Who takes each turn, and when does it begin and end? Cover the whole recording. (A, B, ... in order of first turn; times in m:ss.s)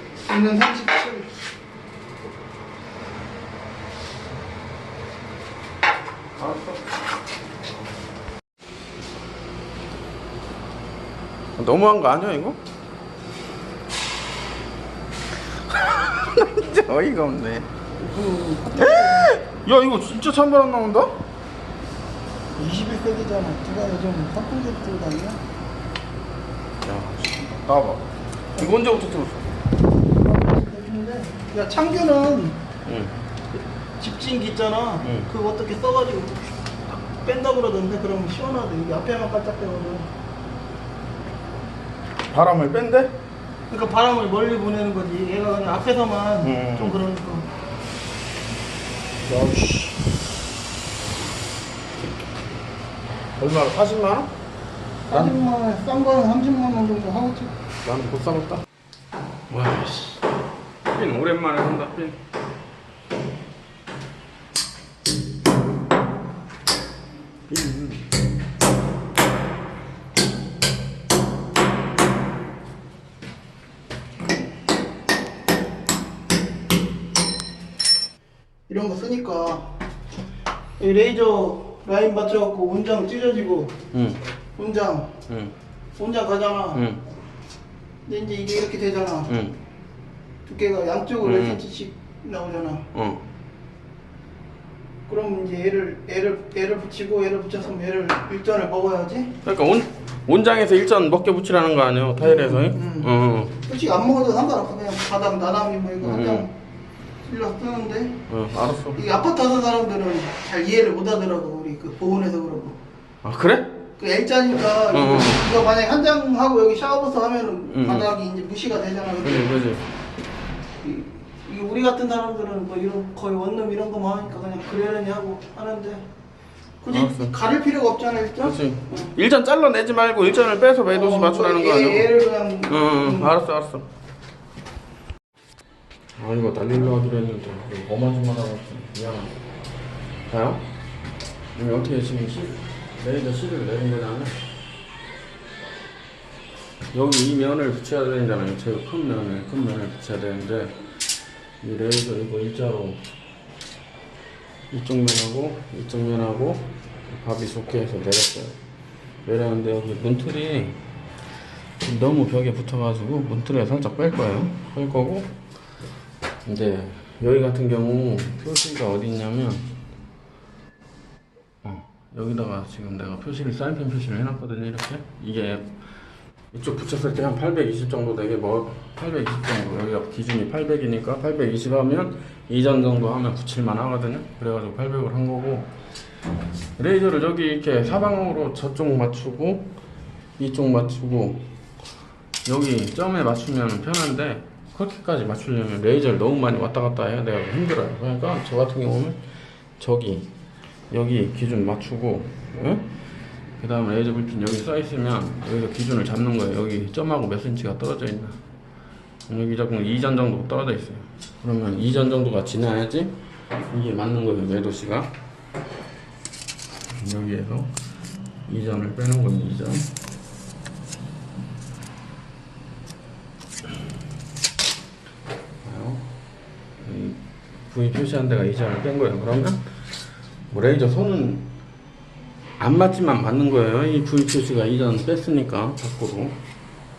0:00.3-0:01.3 A
0:06.4-0:06.8 B
0:11.6-0:12.6 B
0:15.5-0:17.7 B
0:18.0-0:19.4 A
0:18.8-0:21.2 B
0:22.6-0:25.4 A
0:26.8-0:29.5 B
0:30.2-0:32.6 A
0:32.8-0:33.2 B
0:34.0-0:40.1 A
0:35.0-0:35.3 B
0:42.3-0:43.2 B
0:43.7-0:47.5 A
0:46.4-0:47.0 B
0:49.2-0:50.1 B
0:53.4-0:54.3 B
0:55.1-0:57.5 A
0:55.1-0:55.3 B
0:57.8-0:58.6 B
0:59.5-1:00.2 B
1:00.9-1:02.2 B
1:07.5-1:08.1 B
1:18.7-1:19.8 A
1:20.8-1:23.8 A
1:23.9-1:24.2 B
1:24.6-1:25.2 A
1:25.3-1:25.5 B
1:26.0-1:26.8 A
1:26.7-1:27.0 B
1:28.1-1:29.3 A
1:29.3-1:29.6 B
1:30.5-1:32.9 A
1:31.2-1:31.6 B
1:32.9-1:33.2 B
1:35.1-1:39.4 A
1:39.4-1:43.6 B
1:42.2-1:46.5 A
1:46.0-1:46.5 B
1:47.2-1:48.2 A
1:48.3-1:49.0 B
1:48.9-1:52.8 A
1:53.2-1:53.8 B
1:54.0-1:59.5 A
1:54.9-1:55.4 B
1:57.7-1:58.1 B
1:59.2-1:59.9 B
2:00.8-2:06.1 A
2:06.8-2:09.1 A
2:06.9-2:07.3 B
2:08.4-2:12.1 B
2:10.9-2:13.3 A
2:12.7-2:13.9 B
2:16.2-2:19.3 B
2:20.3-2:20.6 B
2:21.5-2:24.4 B
2:26.9-2:30.8 B
2:31.6-2:33.0 B
2:34.7-2:38.6 B
2:39.2-2:40.8 B
2:41.8-2:45.4 B
2:46.4-2:49.7 B
2:51.6-2:55.8 B
2:56.5-3:05.7 B
3:06.8-3:09.8 B
3:10.4-3:11.5 B
3:12.4-3:19.2 B
3:19.8-3:20.3 B
3:20.9-3:22.9 B
3:23.6-3:28.4 B
3:29.3-3:35.1 B
3:36.9-3:37.7 B
3:38.5-3:39.9 B
3:45.6-3:46.1 B
3:46.8-3:49.6 B
3:50.5-3:51.5 B
3:52.6-3:56.4 B